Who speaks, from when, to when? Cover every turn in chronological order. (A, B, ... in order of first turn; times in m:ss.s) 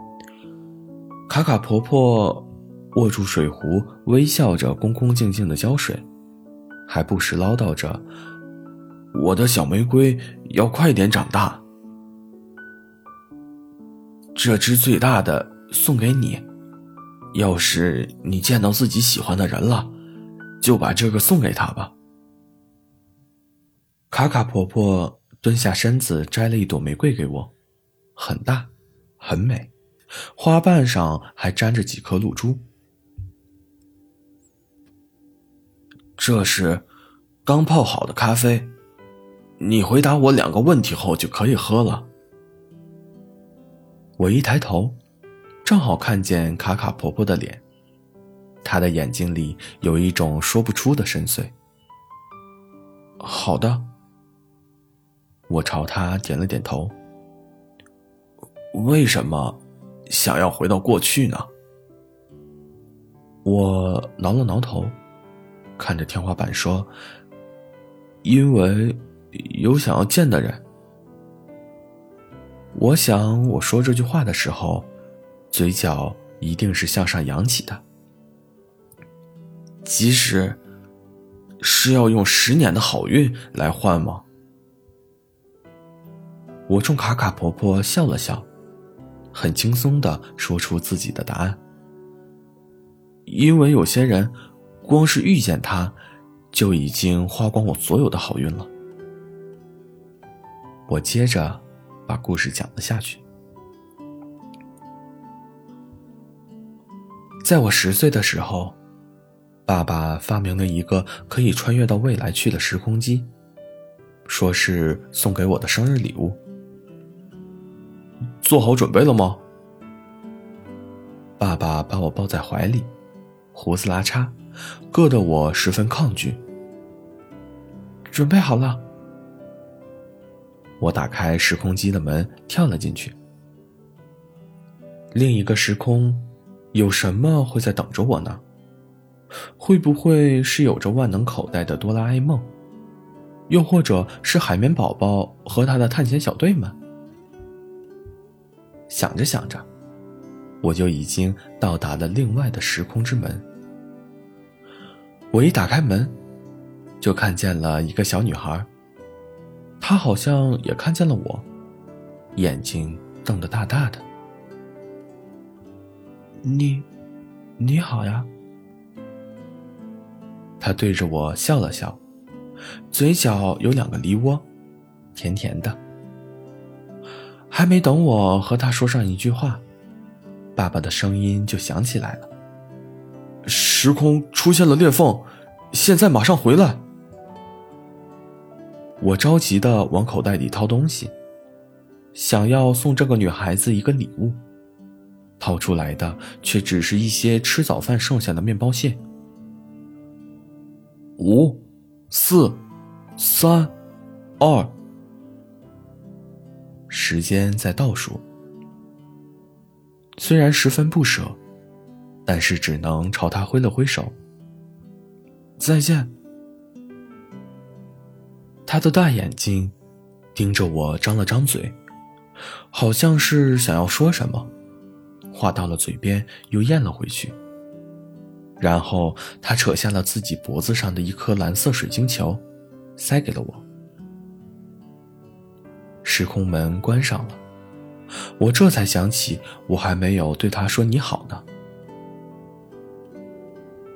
0:01.3-0:06.1 A
0:06.9-0:08.0 A
0:09.1-0:11.6 A
0:14.3-0:16.5 A
0:17.3-0:19.9 A
0:20.6-0:21.9 A
0:24.1-0:27.5 A
0:28.2-0:29.7 A
0:30.3-0:32.6 A
0:36.2-0:36.8 A
0:37.4-0:38.7 A
0:39.6-0:42.1 A
0:44.2-0:45.0 A
0:45.6-0:47.6 A
0:48.6-0:51.5 A
0:53.2-0:53.9 A
0:55.5-0:56.9 A
0:58.7-1:01.5 A
1:03.4-1:05.0 A
1:05.8-1:06.9 A
1:08.2-1:10.6 A
1:12.7-1:14.9 A
1:15.5-1:17.8 A
1:19.8-1:20.6 A
1:21.6-1:24.2 A
1:26.7-1:28.5 A
1:29.3-1:31.6 A
1:33.2-1:36.0 A
1:36.5-1:38.7 A
1:40.9-1:43.2 A
1:47.4-1:48.8 A
1:49.6-1:53.3 A
1:54.2-1:56.4 A
1:58.4-1:59.4 A
2:01.4-2:02.9 A
2:03.5-2:04.4 A
2:04.9-2:06.4 A
2:08.1-2:08.8 A
2:10.8-2:13.2 A
2:15.1-2:18.4 A
2:19.6-2:22.5 A
2:23.5-2:26.8 A
2:28.9-2:29.7 A
2:30.6-2:33.4 A
2:35.3-2:36.2 A
2:37.0-2:38.7 A
2:39.8-2:41.5 A
2:42.4-2:44.0 A
2:46.4-2:46.9 A
2:47.6-2:48.3 A
2:50.6-2:52.0 A
2:52.9-2:54.5 A
2:55.1-2:55.8 A
2:57.5-2:59.6 A
3:00.6-3:02.3 A
3:03.4-3:06.8 A
3:09.0-3:11.1 A
3:12.1-3:14.4 A
3:15.4-3:19.0 A
3:21.2-3:22.6 A
3:23.2-3:23.7 A
3:24.4-3:24.7 A
3:26.9-3:28.2 A
3:30.2-3:31.4 A
3:32.2-3:34.1 A
3:35.6-3:36.1 A
3:38.6-3:39.8 A
3:40.3-3:41.8 A
3:42.7-3:44.5 A
3:45.3-3:47.4 A
3:48.6-3:52.4 A
3:53.0-3:53.6 A
3:56.0-3:57.4 A
3:58.4-4:01.4 A